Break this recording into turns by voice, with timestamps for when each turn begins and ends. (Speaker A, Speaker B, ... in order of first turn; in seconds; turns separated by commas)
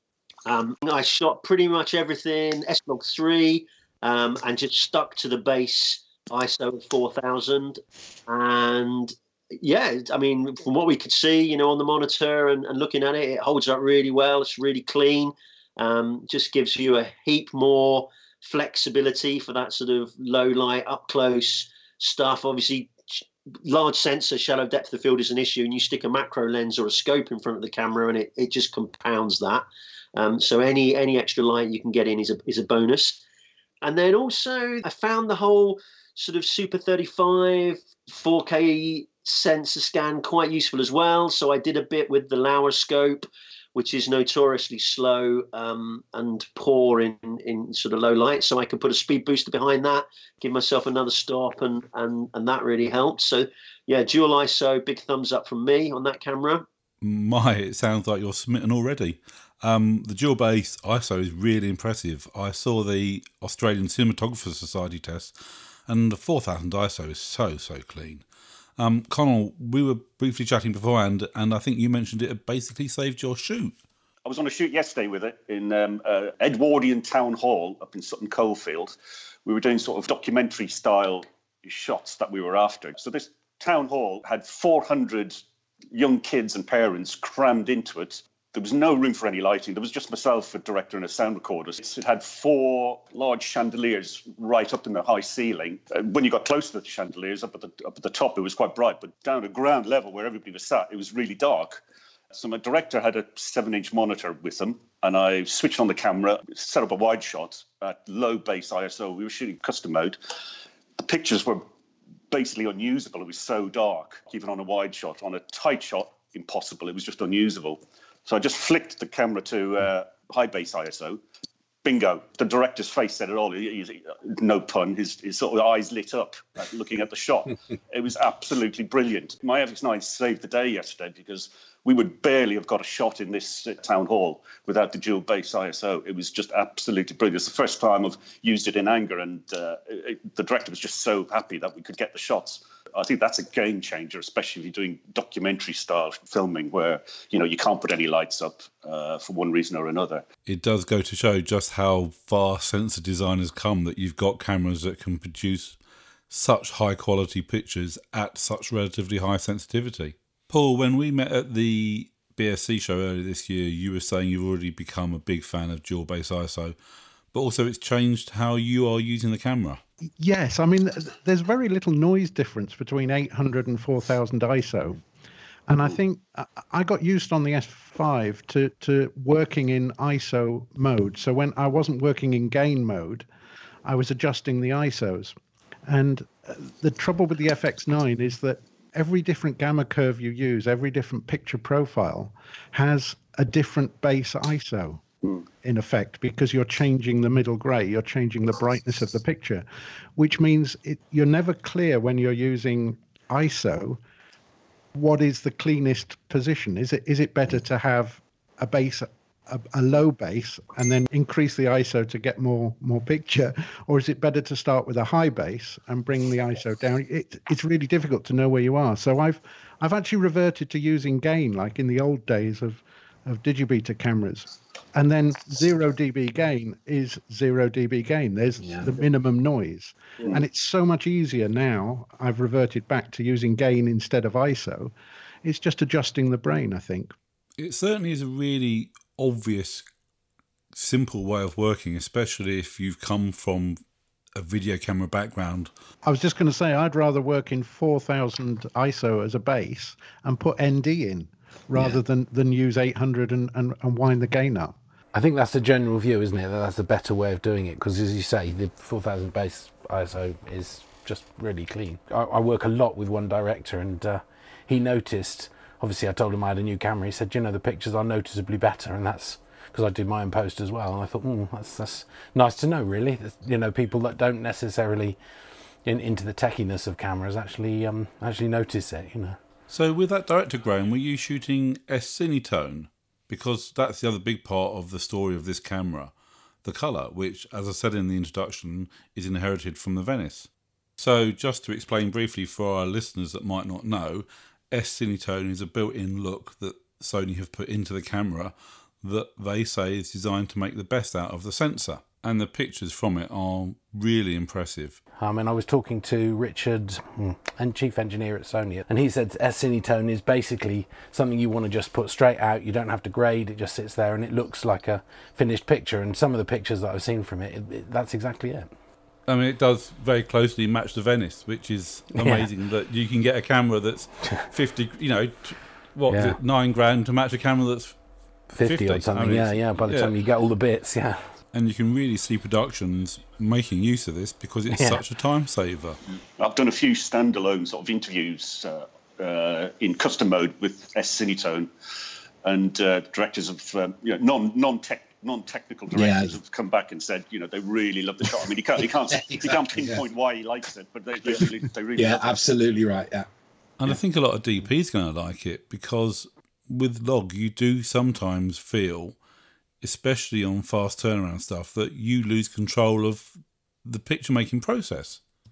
Speaker A: 0.5-29.6, Speaker A: 30.2-33.2, Speaker A: 33.8-56.7, Speaker B: 57.0-65.3, Speaker B: 65.9-68.2, Speaker B: 68.8-73.8, Speaker C: 74.2-110.2, Speaker C: 111.0-111.7, Speaker C: 112.3-121.2, Speaker C: 121.8-150.2, Speaker B: 150.5-155.8, Speaker B: 156.3-166.8, Speaker B: 167.3-169.8, Speaker D: 170.2-175.0, Speaker D: 175.7-183.3, Speaker D: 183.8-185.3, Speaker D: 185.9-195.0, Speaker D: 195.6-199.7, Speaker D: 200.2-204.0, Speaker D: 204.9-234.9, Speaker E: 228.6-229.0, Speaker D: 235.4-237.1, Speaker B: 237.6-239.9, Speaker B: 240.7-243.8, Speaker B: 244.3-245.7, Speaker D: 246.0-254.8, Speaker F: 255.1-275.2, Speaker F: 275.9-279.4, Speaker B: 279.7-286.1, Speaker B: 286.6-305.0, Speaker F: 305.2-318.7, Speaker B: 319.3-327.9, Speaker F: 322.2-322.5, Speaker F: 326.1-326.4, Speaker F: 328.5-331.3, Speaker B: 328.6-330.1, Speaker B: 331.5-336.0, Speaker F: 334.7-335.0, Speaker C: 336.4-341.7, Speaker C: 342.4-352.4, Speaker E: 345.9-346.4, Speaker E: 349.1-350.0, Speaker E: 351.4-353.3, Speaker B: 353.8-359.2, Speaker B: 359.8-363.3, Speaker B: 363.9-365.2